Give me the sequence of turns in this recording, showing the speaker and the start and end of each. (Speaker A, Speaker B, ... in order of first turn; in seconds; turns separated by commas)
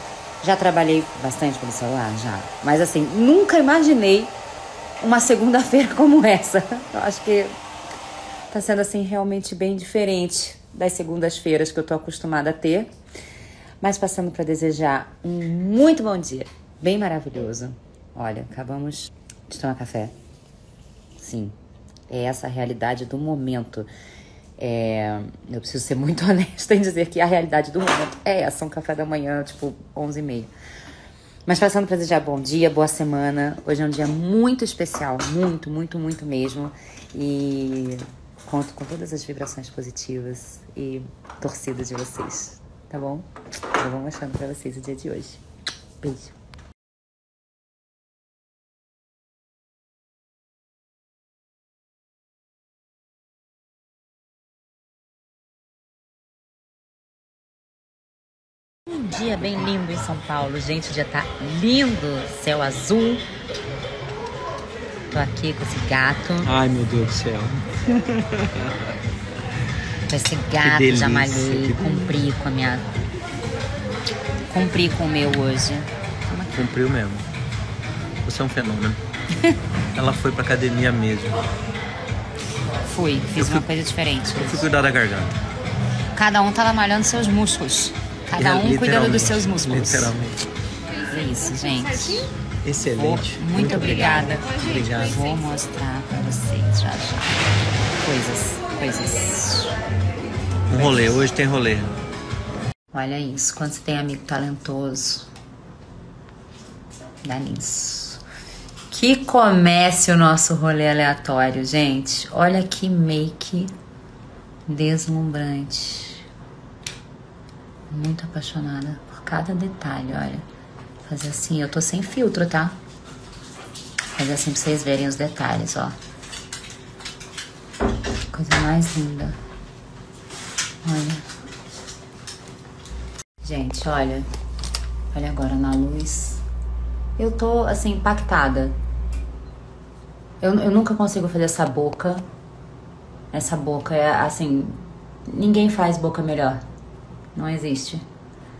Speaker A: 0.4-4.3, Speaker A: 5.0-7.5, Speaker A: 8.5-12.9, Speaker A: 13.8-20.1, Speaker A: 21.2-21.6, Speaker A: 22.1-23.9, Speaker A: 24.6-30.5, Speaker A: 31.4-45.4, Speaker A: 46.0-46.3, Speaker A: 58.9-63.2, Speaker A: 65.1-66.5, Speaker B: 66.4-68.0, Speaker A: 70.1-72.9, Speaker B: 70.6-72.1, Speaker A: 74.5-76.6, Speaker B: 76.5-77.3, Speaker B: 78.2-79.0, Speaker B: 79.9-81.4, Speaker A: 82.9-84.7, Speaker B: 83.3-83.6, Speaker B: 84.3-85.4, Speaker A: 86.1-90.1, Speaker B: 88.4-90.4, Speaker A: 91.0-92.3, Speaker B: 92.6-95.2, Speaker A: 93.0-97.4, Speaker A: 98.0-99.7, Speaker B: 100.7-101.9, Speaker A: 102.9-105.3, Speaker A: 107.2-108.2, Speaker A: 108.9-113.7, Speaker A: 114.7-116.2, Speaker A: 117.9-120.4, Speaker A: 121.0-122.8, Speaker A: 124.1-126.0, Speaker A: 128.3-129.3, Speaker A: 130.8-131.2, Speaker A: 133.4-134.3, Speaker A: 135.1-136.4, Speaker A: 137.2-138.8, Speaker A: 140.4-142.2, Speaker A: 143.3-146.6, Speaker A: 147.3-148.0